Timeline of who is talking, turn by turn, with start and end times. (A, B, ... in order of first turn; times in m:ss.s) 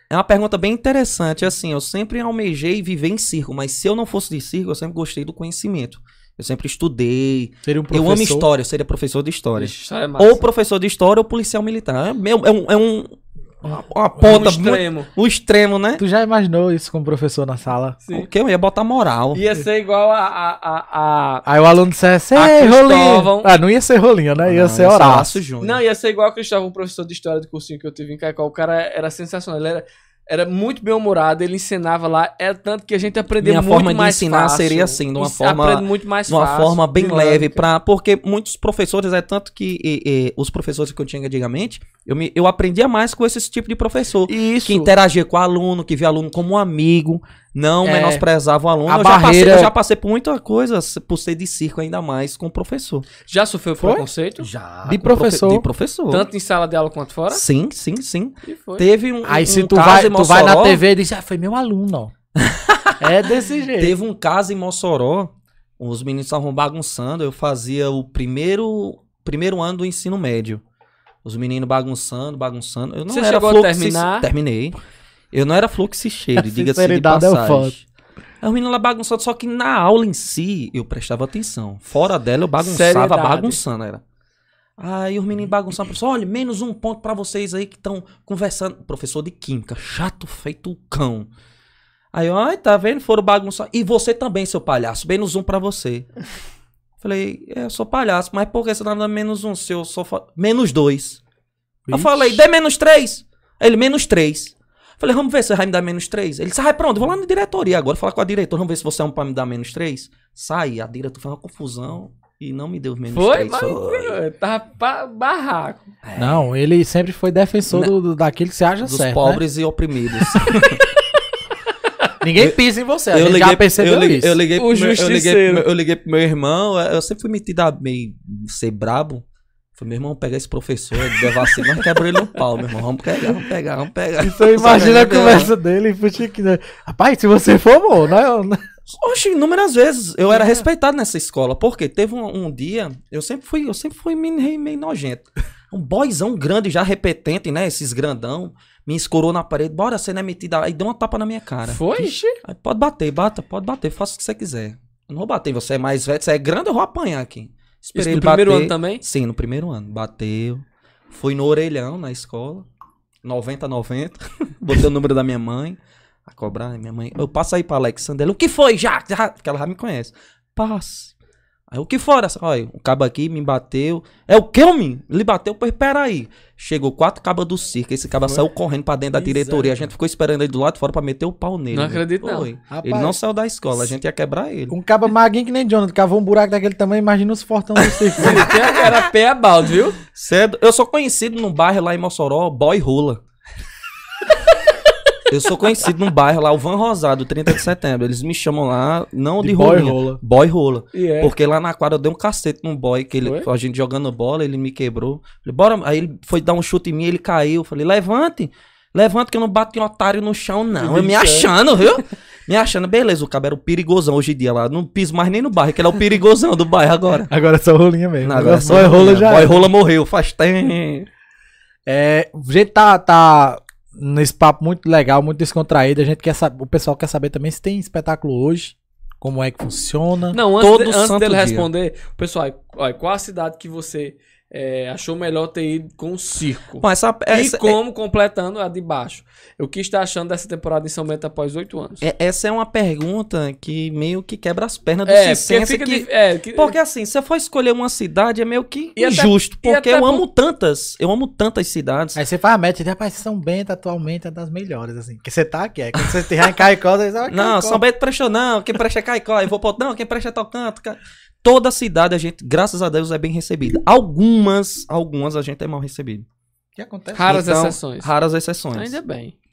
0:00.1-0:16.0 A
0:07.6-0:08.5 B
0:09.6-0:10.4 C
0:14.2-0:15.1 C
0:16.0-0:18.0 B
0:18.1-0:19.4 A
0:19.3-0:21.4 C
0:21.4-0:25.4 B
0:22.4-0:23.6 C
0:24.4-0:25.8 A
0:25.6-0:37.6 C
0:33.4-0:53.1 A
0:44.3-0:44.9 C
0:47.8-0:48.2 B
0:48.9-0:49.7 B
0:53.3-0:54.5 C
0:53.8-0:54.1 B
0:54.4-0:56.3 A
0:54.9-0:55.7 B
0:56.1-0:57.4 C
0:57.3-1:00.8 A
0:58.4-0:58.9 C
0:59.2-1:02.1 B
1:02.4-1:03.2 A
1:03.0-1:04.0 B
1:03.8-1:10.6 A
1:11.2-1:14.8 A
1:13.1-1:14.3 C
1:15.3-1:17.8 A
1:16.4-1:17.8 B
1:18.4-1:24.0 A
1:22.6-1:23.6 C
1:24.8-1:31.3 A
1:32.1-1:36.1 A
1:37.0-1:41.2 A
1:41.9-1:42.4 B
1:41.9-1:54.2 A
1:53.1-1:55.9 C
1:56.0-1:56.5 A
1:56.2-1:59.4 B
1:58.8-2:00.8 A
2:02.2-2:04.4 B
2:03.1-2:09.2 A
2:04.6-2:05.6 C
2:09.8-2:15.5 A
2:14.2-2:18.6 B
2:18.9-2:42.7 A
2:20.3-2:20.6 B
2:31.6-2:32.4 C
2:38.0-2:39.0 C
2:43.2-2:51.1 A
2:51.7-3:04.8 A
2:59.1-2:59.9 B
3:01.7-3:02.5 C
3:02.7-3:03.2 B
3:04.7-3:08.6 B
3:08.0-3:08.8 A
3:08.2-3:10.0 C
3:10.1-3:13.2 A
3:15.3-3:37.3 A
3:19.4-3:20.2 B
3:20.9-3:21.3 C
3:23.2-3:23.5 C
3:30.8-3:31.5 C
3:37.3-3:39.7 B
3:38.2-3:41.1 A
3:41.9-3:50.4 B
3:50.3-4:02.0 C
3:50.5-3:51.7 A
3:56.8-3:57.8 A
4:02.0-4:12.2 A
4:05.1-4:06.8 C
4:09.0-4:10.2 C
4:12.2-4:17.8 B
4:17.3-4:26.3 A
4:26.8-4:27.4 B
4:27.1-4:28.1 C
4:27.2-4:29.0 A
4:28.7-4:29.3 C